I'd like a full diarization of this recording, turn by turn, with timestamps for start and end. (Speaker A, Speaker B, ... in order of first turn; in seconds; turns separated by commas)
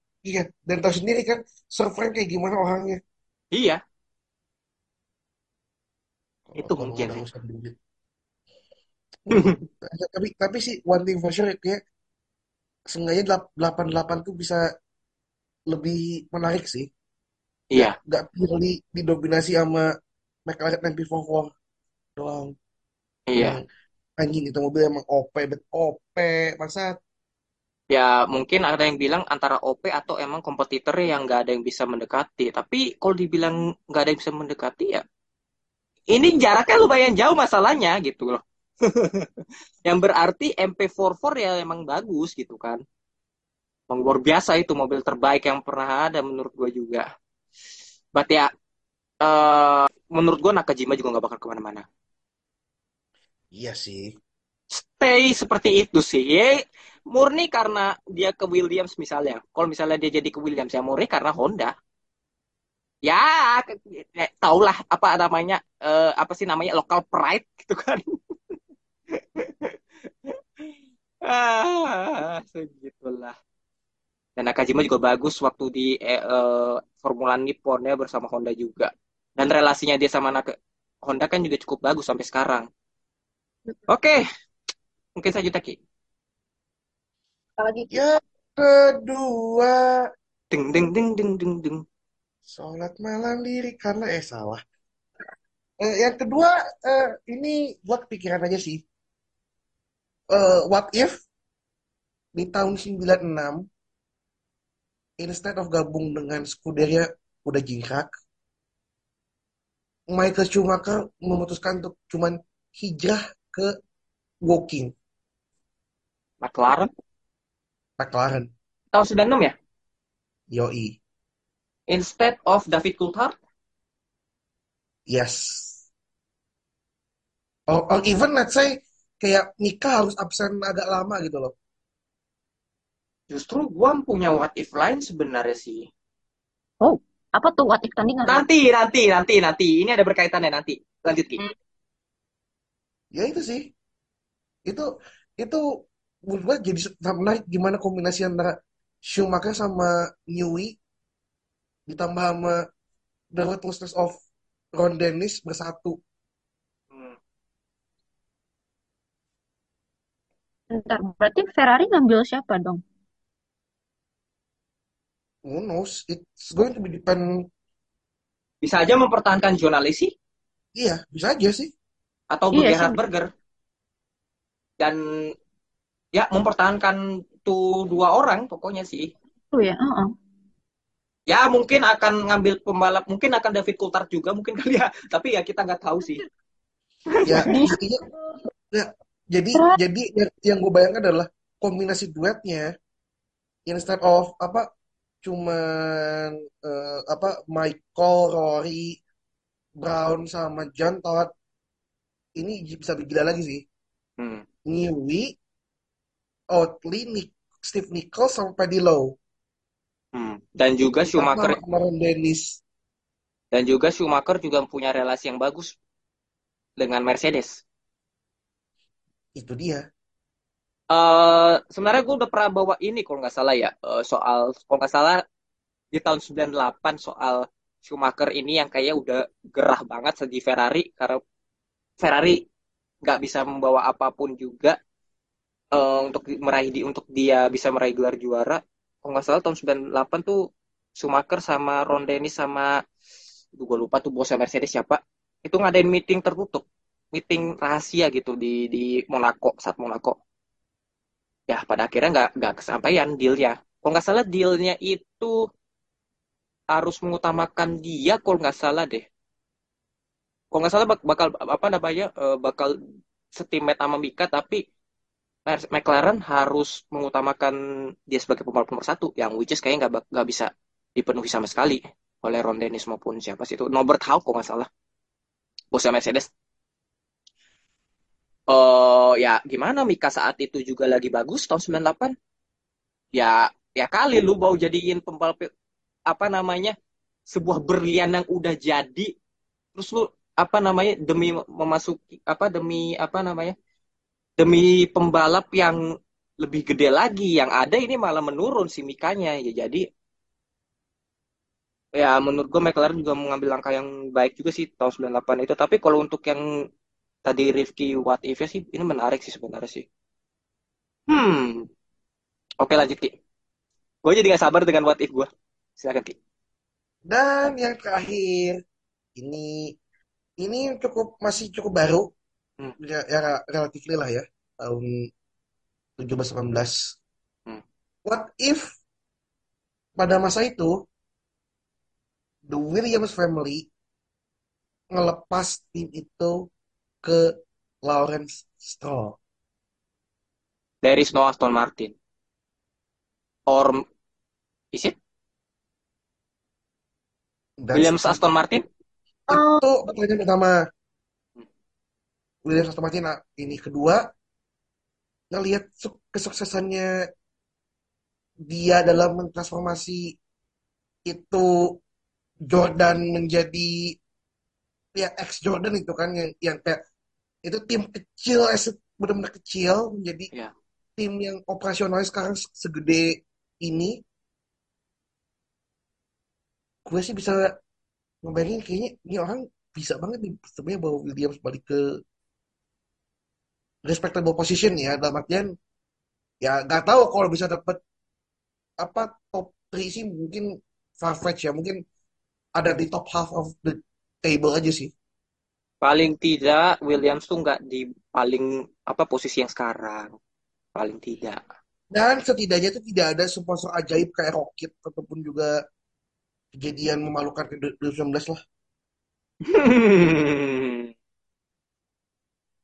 Speaker A: 0.2-3.0, Speaker B: 3.5-3.8, Speaker A: 6.5-7.7, Speaker B: 6.6-7.2, Speaker B: 9.3-9.6, Speaker A: 9.8-11.8, Speaker A: 12.9-14.6, Speaker A: 15.7-16.9, Speaker A: 17.8-19.8, Speaker A: 20.5-21.5, Speaker A: 22.2-22.5, Speaker B: 23.3-23.6, Speaker A: 23.4-23.6, Speaker A: 24.2-26.9, Speaker B: 27.9-35.0, Speaker B: 36.1-39.3, Speaker B: 39.8-42.8, Speaker B: 43.9-47.1, Speaker B: 48.1-48.5, Speaker B: 49.2-51.8, Speaker A: 53.5-54.1, Speaker B: 54.7-61.7, Speaker B: 63.0-68.6, Speaker B: 69.1-70.7, Speaker B: 71.2-73.3, Speaker B: 74.4-80.5, Speaker B: 81.0-82.7, Speaker B: 83.9-84.2, Speaker B: 85.2-85.8, Speaker C: 87.6-87.9, Speaker A: 87.9-90.0, Speaker B: 90.5-91.8, Speaker A: 92.5-94.6, Speaker A: 95.8-98.8, Speaker A: 100.3-101.2, Speaker A: 102.3-103.7, Speaker A: 105.2-108.1, Speaker A: 110.1-113.7, Speaker A: 114.4-114.9, Speaker B: 116.4-116.9, Speaker A: 118.0-118.5, Speaker B: 118.9-119.5, Speaker A: 120.5-121.0, Speaker B: 121.9-123.3, Speaker A: 125.1-125.8, Speaker A: 127.7-131.5, Speaker B: 133.3-135.9, Speaker C: 136.8-138.4, Speaker B: 138.3-141.4, Speaker A: 143.1-143.7, Speaker A: 146.3-148.5, Speaker A: 149.1-150.7, Speaker A: 151.9-152.6, Speaker A: 153.3-154.2, Speaker A: 154.7-155.9, Speaker C: 160.7-162.8, Speaker A: 165.4-167.2, Speaker B: 168.6-170.1, Speaker A: 170.7-171.7, Speaker B: 172.3-173.3, Speaker C: 172.5-173.0, Speaker B: 176.1-179.1, Speaker C: 179.5-180.1, Speaker B: 181.3-186.2, Speaker A: 187.2-188.0, Speaker C: 187.5-188.3, Speaker A: 188.7-192.7, Speaker A: 193.7-194.7, Speaker A: 195.2-199.0, Speaker A: 199.8-201.3, Speaker A: 202.4-203.6, Speaker B: 204.2-204.4, Speaker A: 204.7-205.3, Speaker A: 206.5-209.1, Speaker B: 210.1-211.6, Speaker A: 211.0-212.6, Speaker B: 213.5-215.8, Speaker B: 216.8-217.6, Speaker A: 219.3-219.8, Speaker B: 220.9-225.2, Speaker B: 225.9-231.2, Speaker B: 232.0-232.4, Speaker B: 233.1-234.8, Speaker B: 235.7-240.4, Speaker B: 241.0-242.7, Speaker B: 243.6-250.2, Speaker B: 251.5-255.5, Speaker B: 256.7-259.0, Speaker B: 260.5-262.7, Speaker B: 263.3-264.6, Speaker B: 265.4-267.6, Speaker B: 268.1-274.7, Speaker B: 275.7-276.3, Speaker B: 278.5-282.1, Speaker B: 283.1-285.5, Speaker B: 286.1-286.7, Speaker B: 287.3-289.1, Speaker B: 289.8-293.5, Speaker B: 294.4-295.8, Speaker B: 296.4-299.8, Speaker B: 301.9-306.4, Speaker B: 307.2-309.8, Speaker B: 311.1-311.7, Speaker B: 312.6-313.1, Speaker B: 314.0-316.1, Speaker A: 317.1-318.6, Speaker A: 319.1-319.7, Speaker A: 320.4-322.1, Speaker A: 322.8-325.1, Speaker A: 326.0-326.9, Speaker A: 328.1-328.7, Speaker A: 330.0-330.7, Speaker A: 332.5-333.7, Speaker A: 334.9-336.3, Speaker A: 337.8-339.1, Speaker B: 340.8-341.9, Speaker B: 343.5-343.8, Speaker A: 347.6-348.2, Speaker B: 347.7-348.6, Speaker A: 349.3-350.6, Speaker C: 349.3-349.6, Speaker A: 352.4-354.0, Speaker A: 355.3-356.9, Speaker A: 358.5-360.1, Speaker A: 361.1-361.8, Speaker A: 362.5-363.9, Speaker A: 364.9-366.8, Speaker A: 367.4-370.3, Speaker A: 371.0-374.0, Speaker A: 376.9-377.5, Speaker A: 378.2-381.8, Speaker A: 383.9-385.5, Speaker A: 386.4-387.8, Speaker A: 388.8-390.5, Speaker A: 391.0-391.8, Speaker A: 392.6-394.9, Speaker B: 395.8-400.2, Speaker B: 400.7-401.4, Speaker A: 401.9-405.5, Speaker A: 406.5-408.4, Speaker B: 409.5-410.9